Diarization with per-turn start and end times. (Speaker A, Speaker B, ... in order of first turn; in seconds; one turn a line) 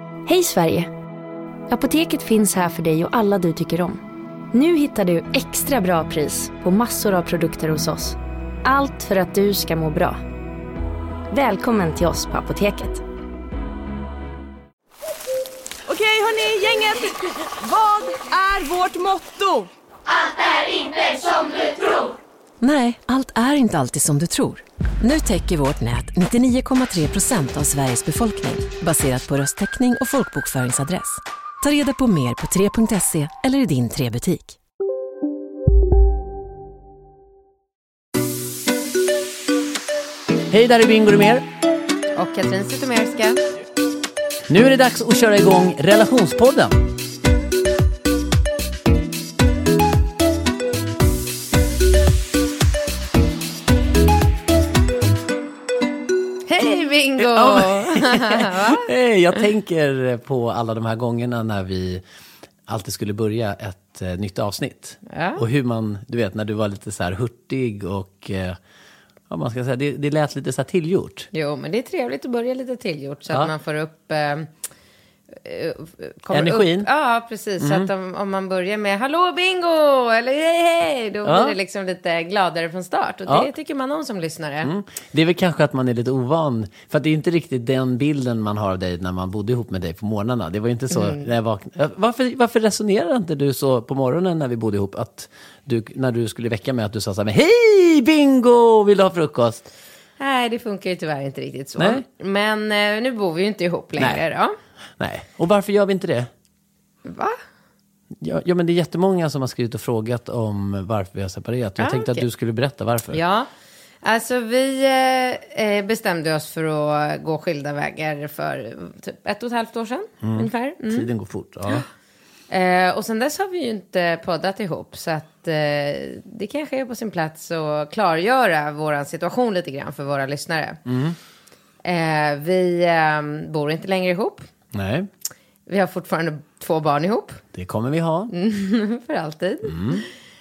Speaker A: 0.3-0.9
Speaker A: 1.7-10.2
Speaker A: 11.3-13.0
Speaker B: 15.9-19.7
Speaker C: 22.6-34.6
Speaker D: 40.5-41.5
Speaker E: 42.2-43.4
Speaker D: 44.5-46.8
Speaker E: 56.5-58.9
Speaker D: 57.2-62.0
Speaker D: 62.7-68.6
Speaker E: 65.1-65.4
Speaker D: 69.3-71.3
Speaker E: 71.3-74.5
Speaker E: 75.4-84.7
Speaker D: 76.3-76.9
Speaker D: 77.6-77.9
Speaker D: 81.2-81.5
Speaker D: 84.6-99.7
Speaker E: 90.9-91.2
Speaker E: 100.2-104.5
Speaker D: 101.8-102.0
Speaker D: 104.0-104.2
Speaker D: 105.0-106.3
Speaker E: 107.1-107.4
Speaker D: 108.2-113.2
Speaker E: 111.8-112.3
Speaker E: 113.1-113.5
Speaker E: 114.0-121.1
Speaker D: 120.2-121.8
Speaker E: 122.5-130.8
Speaker D: 130.9-131.2
Speaker E: 131.8-134.5
Speaker D: 134.7-135.1
Speaker E: 135.7-137.4
Speaker D: 137.5-138.3
Speaker E: 138.3-140.1
Speaker D: 139.7-140.0